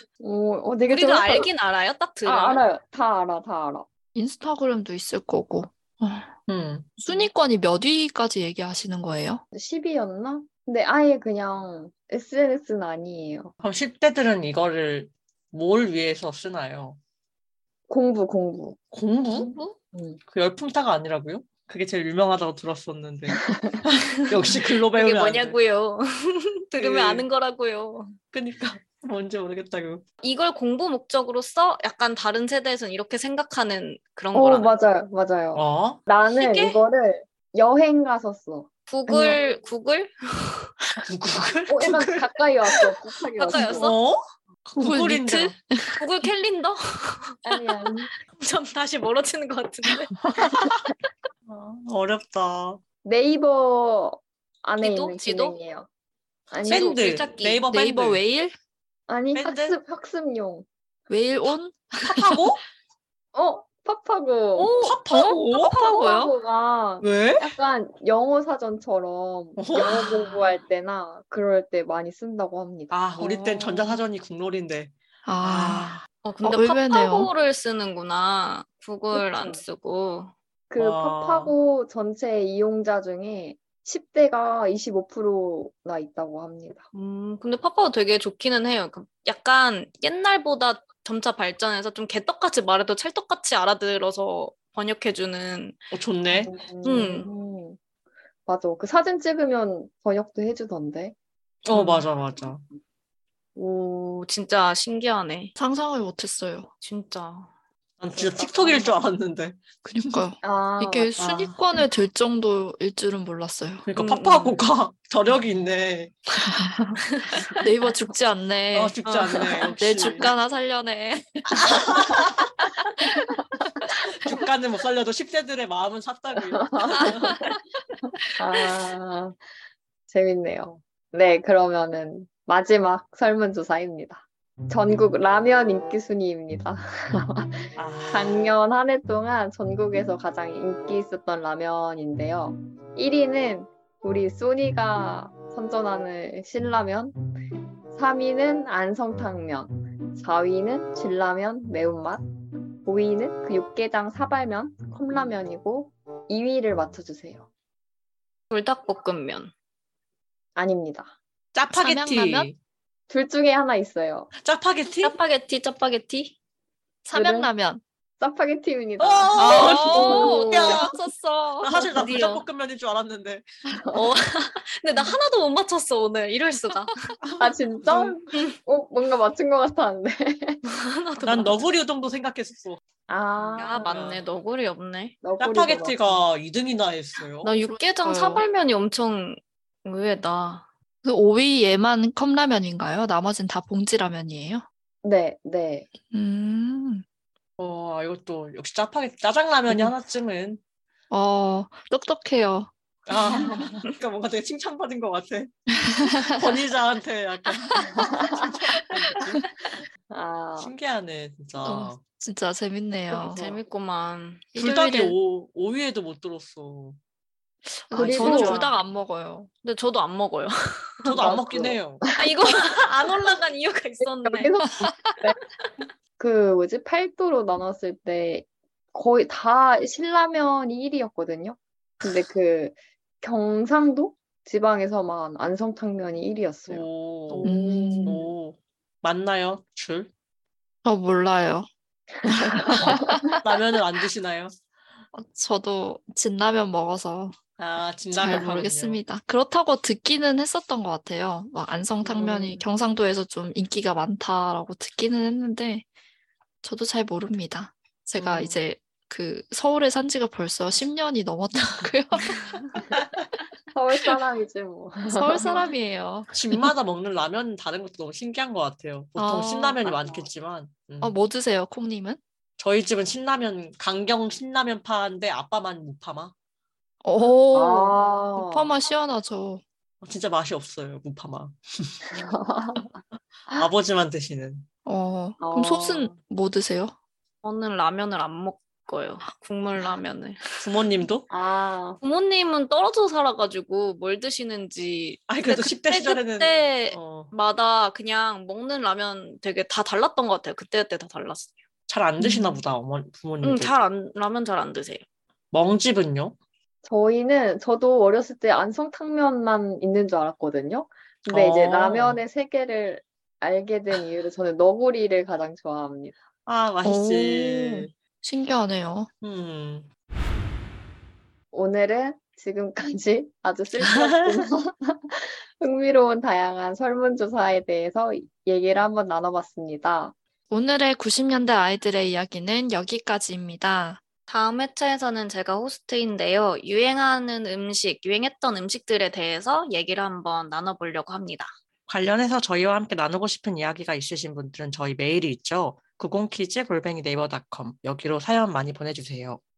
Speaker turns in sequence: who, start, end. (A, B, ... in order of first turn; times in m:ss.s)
0:00.2-0:01.5 A
0:00.9-0:02.6 B
0:02.2-0:03.9 A
0:04.2-0:06.3 C
0:06.5-0:07.0 D
0:07.0-0:09.4 C
0:09.5-0:13.5 A
0:13.6-0:17.0 D
0:17.9-0:18.8 A
0:18.9-0:19.5 D
0:19.3-0:19.8 B
0:19.9-0:20.2 A
0:20.3-0:25.6 D
0:23.5-0:23.8 A
0:24.5-0:28.2 B
0:26.8-0:27.3 D
0:28.3-0:30.0 D
0:30.2-0:34.7 B
0:34.3-0:39.4 A
0:35.5-0:36.0 D
0:36.4-0:36.8 B
0:38.9-0:40.7 B
0:41.0-0:42.3 D
0:41.7-0:43.9 A
0:43.4-0:44.0 B
0:43.5-0:45.6 D
0:44.8-0:46.3 C
0:46.0-0:47.4 B
0:47.4-0:48.1 A
0:48.3-0:50.2 B
0:50.4-0:50.8 D
0:51.5-0:52.8 D
0:53.0-0:55.9 A
0:54.8-0:55.6 B
0:56.5-0:57.0 A
0:56.7-0:57.6 B
0:56.7-0:58.2 D
0:57.7-0:58.6 C
0:59.1-1:00.7 A
0:59.3-0:59.8 D
1:01.1-1:02.4 C
1:02.0-1:02.6 D
1:03.3-1:04.7 A
1:04.6-1:05.0 B
1:04.8-1:05.8 D
1:05.1-1:06.3 C
1:05.7-1:13.0 A
1:07.0-1:07.6 D
1:09.6-1:10.4 D
1:12.9-1:16.0 D
1:13.2-1:14.0 C
1:15.3-1:17.3 C
1:16.2-1:20.3 B
1:19.1-1:19.6 A
1:20.7-1:26.8 A
1:20.8-1:21.5 D
1:26.9-1:35.8 B
1:35.9-1:36.5 D
1:36.3-1:37.8 A
1:36.8-1:37.3 B
1:38.5-1:41.2 A
1:41.6-1:42.6 D
1:41.7-1:42.0 B
1:43.6-1:45.5 B
1:45.6-1:46.7 C
1:46.8-1:47.5 B
1:48.0-1:49.6 D
1:48.6-1:48.9 B
1:49.8-1:53.8 C
1:50.4-1:51.1 A
1:51.2-1:51.6 D
1:53.9-1:56.4 D
1:54.0-1:54.6 B
1:56.4-2:02.0 C
1:57.1-1:57.6 B
1:58.7-2:00.3 D
2:01.5-2:02.5 D
2:03.9-2:07.4 D
2:06.6-2:07.5 A
2:07.0-2:07.5 C
2:08.4-2:09.4 A
2:10.1-2:27.2 A
2:17.8-2:18.5 D
2:27.9-2:32.2 A
2:32.8-2:37.5 A
2:38.5-2:39.5 B
2:40.6-2:41.1 A
2:41.5-2:42.6 D
2:41.7-2:42.5 C
2:43.1-2:44.3 A
2:44.4-2:45.2 D
2:45.0-2:46.4 B
2:47.1-2:47.8 C
2:47.2-2:47.5 A
2:48.2-2:50.9 A
2:49.0-2:50.9 D
2:49.4-2:51.7 C
2:50.2-2:50.5 B
2:51.6-2:53.5 D
2:51.9-2:52.4 B
2:53.7-2:54.1 A
2:53.9-2:57.1 B
2:57.2-2:58.2 D
2:57.4-3:00.6 A
3:00.7-3:01.7 B
3:01.2-3:02.8 D
3:03.1-3:04.1 A
3:03.6-3:05.2 B
3:03.7-3:04.2 D
3:05.2-3:06.2 A
3:05.4-3:07.5 D
3:07.4-3:10.7 B
3:07.7-3:08.5 C
3:11.0-3:14.6 C
3:15.0-3:15.9 A
3:16.1-3:17.0 C
3:17.6-3:20.6 D
3:21.1-3:22.7 C
3:23.1-3:29.7 D
3:23.3-3:23.6 C
3:25.8-3:26.4 C
3:27.8-3:28.1 C
3:27.9-3:28.6 A
3:30.1-3:30.7 A
3:30.6-3:32.0 D
3:31.6-3:33.6 C
3:33.1-3:34.5 B
3:34.5-3:35.2 C
3:34.6-3:37.0 D
3:37.9-3:39.5 C
3:37.9-3:38.7 A
3:38.0-3:38.6 D
3:38.2-3:38.7 B
3:39.6-3:41.2 B
3:41.0-3:42.1 D
3:41.1-3:42.0 A
3:42.2-3:44.5 B
3:44.0-3:45.4 A
3:46.2-3:58.3 A
3:56.7-3:57.5 D
3:57.4-3:58.2 C
3:58.0-4:00.1 D
4:00.8-4:01.7 C
4:02.2-4:03.4 C
4:02.5-4:03.0 A
4:02.7-4:04.5 D
4:05.1-4:07.4 C
4:07.6-4:09.0 D
4:08.1-4:15.8 C
4:12.0-4:12.6 A
4:16.6-4:22.6 C
4:18.2-4:18.6 D
4:23.7-4:25.7 A
4:25.1-4:26.3 C
4:26.3-4:31.2 D
4:29.2-4:29.9 C
4:29.9-4:30.3 A
4:31.0-4:32.2 C
4:32.6-4:36.3 D
4:37.0-4:39.6 C
4:37.5-4:38.7 A
4:40.0-4:42.0 D
4:42.1-4:42.9 A
4:43.1-4:44.7 D
4:44.8-4:46.9 C
4:45.4-4:46.1 A
4:47.4-4:50.6 B
4:50.6-4:51.3 D
4:51.3-4:52.0 A
4:52.0-5:01.6 B
4:55.3-4:57.3 D
5:01.9-5:03.8 D
5:02.2-5:02.6 C
5:03.4-5:05.0 B
5:05.5-5:06.4 D
5:06.8-5:16.2 A
5:11.3-5:12.2 D
5:16.5-5:17.9 D
5:16.8-5:19.1 C
5:19.2-5:19.9 D
5:21.5-5:30.2 A
5:23.8-5:24.4 D
5:30.5-5:34.0 C
5:34.3-5:41.5 B
5:41.9-5:49.4 D